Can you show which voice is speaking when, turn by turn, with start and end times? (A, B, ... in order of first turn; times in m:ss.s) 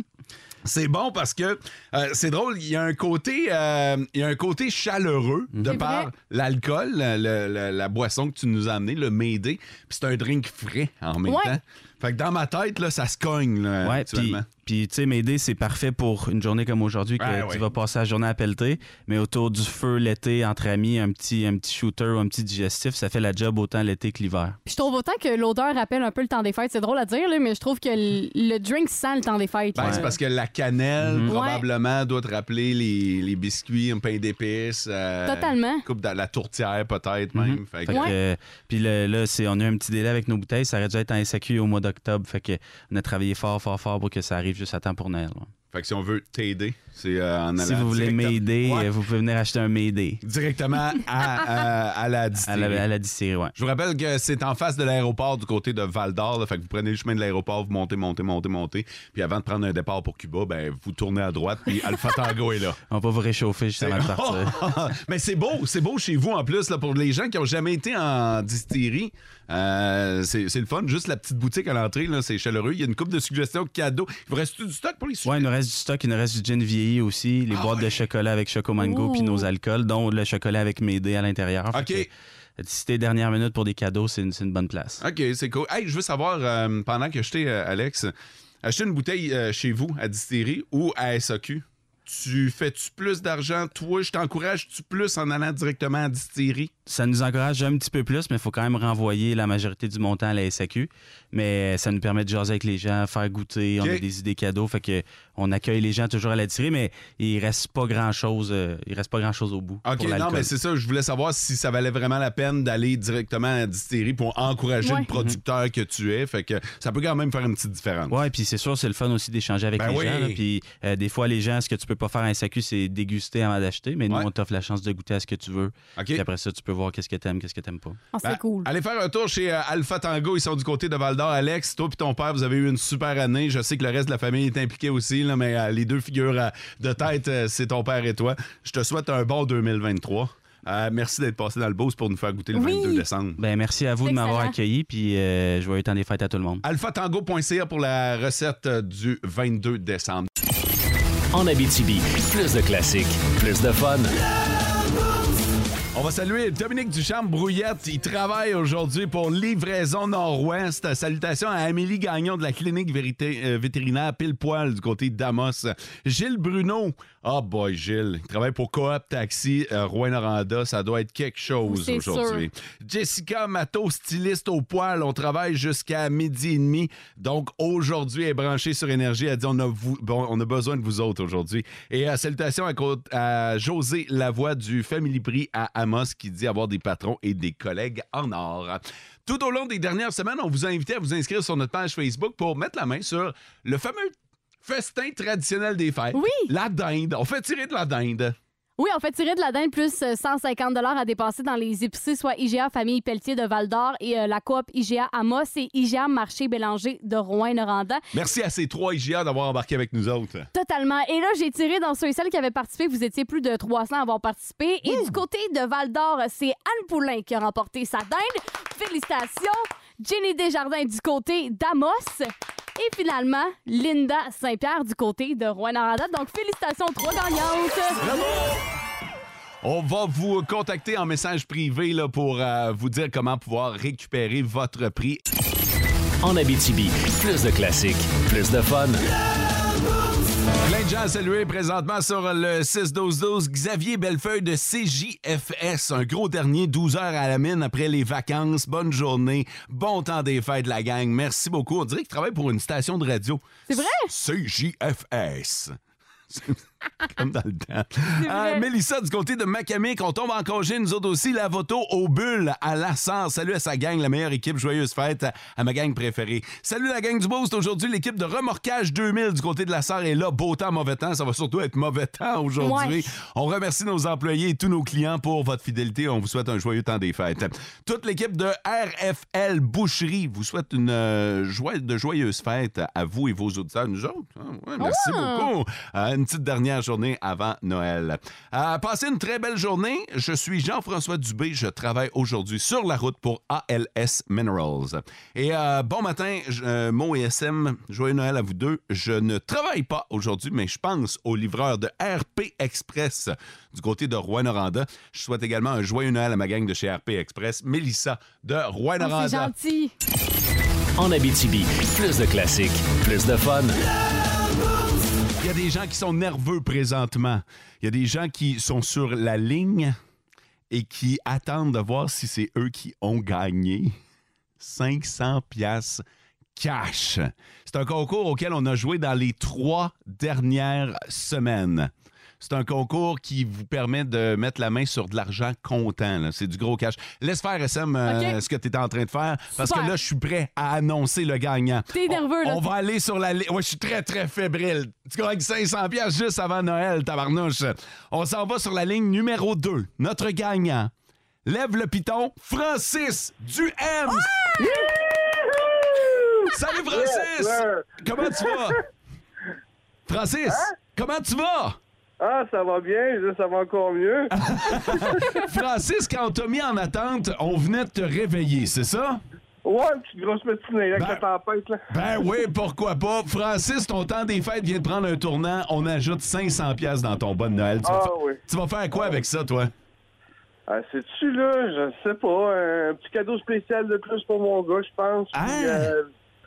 0:00.6-0:14.5 A
0:05.5-0:05.8 B
0:05.6-0:06.1 C
0:11.3-0:11.6 C
0:13.8-0:24.6 B
0:17.2-0:17.7 A
0:24.7-0:30.2 C
0:29.8-0:38.2 A
0:31.0-0:31.3 B
0:31.2-0:31.6 C
0:35.3-0:35.8 C
0:37.3-0:45.5 B
0:37.9-0:38.2 C
0:45.7-0:48.9 A
0:47.6-0:50.2 B
0:50.2-0:52.9 A
0:52.4-0:53.5 B
0:53.6-1:02.8 A
1:02.9-1:04.6 B
1:03.8-1:15.5 A
1:15.2-1:25.0 B
1:17.5-1:18.1 A
1:18.8-1:19.5 C
1:21.7-1:22.1 A
1:25.0-1:28.1 A
1:28.6-1:36.7 A
1:36.9-1:50.5 B
1:43.8-1:44.1 A
1:49.8-1:58.2 A
1:54.8-1:55.1 C
1:55.1-1:55.4 B
1:58.1-2:08.0 B
1:59.8-2:00.4 A
2:06.0-2:06.2 A
2:08.1-2:08.7 C
2:08.2-2:23.4 A
2:22.5-2:23.0 C
2:23.4-2:26.6 B
2:24.0-2:24.6 C
2:26.6-2:30.3 A
2:31.3-2:34.1 D
2:36.0-3:18.4 A
2:51.6-2:52.5 C
3:16.1-3:16.5 C
3:18.8-3:28.0 C
3:28.1-3:30.5 A
3:30.5-3:48.0 C
3:34.9-3:35.1 A
3:48.0-3:48.6 A
3:49.6-3:55.2 A
3:56.2-3:59.0 D
4:00.6-4:15.8 A
4:13.7-4:14.1 C
4:16.3-5:09.5 A
4:18.2-4:18.6 C
4:32.6-4:33.1 C
4:44.8-4:45.5 C
5:09.0-5:09.9 C
5:11.0-5:13.8 D
5:15.4-5:20.0 A
5:20.7-5:23.9 A
5:24.6-5:26.0 A
5:26.6-5:50.9 A
5:38.1-5:38.4 C
5:39.6-5:39.9 C
5:41.9-5:42.7 C
5:51.5-5:54.5 A
5:54.6-5:58.8 E
5:54.6-5:54.8 C
5:56.5-5:58.8 A
6:00.1-6:01.8 A
6:02.2-6:05.4 E
6:04.4-6:09.2 A
6:09.6-6:11.8 E
6:11.0-6:11.2 A
6:11.9-6:19.7 A
6:17.8-6:18.4 E
6:20.7-6:26.1 E
6:25.3-6:25.9 A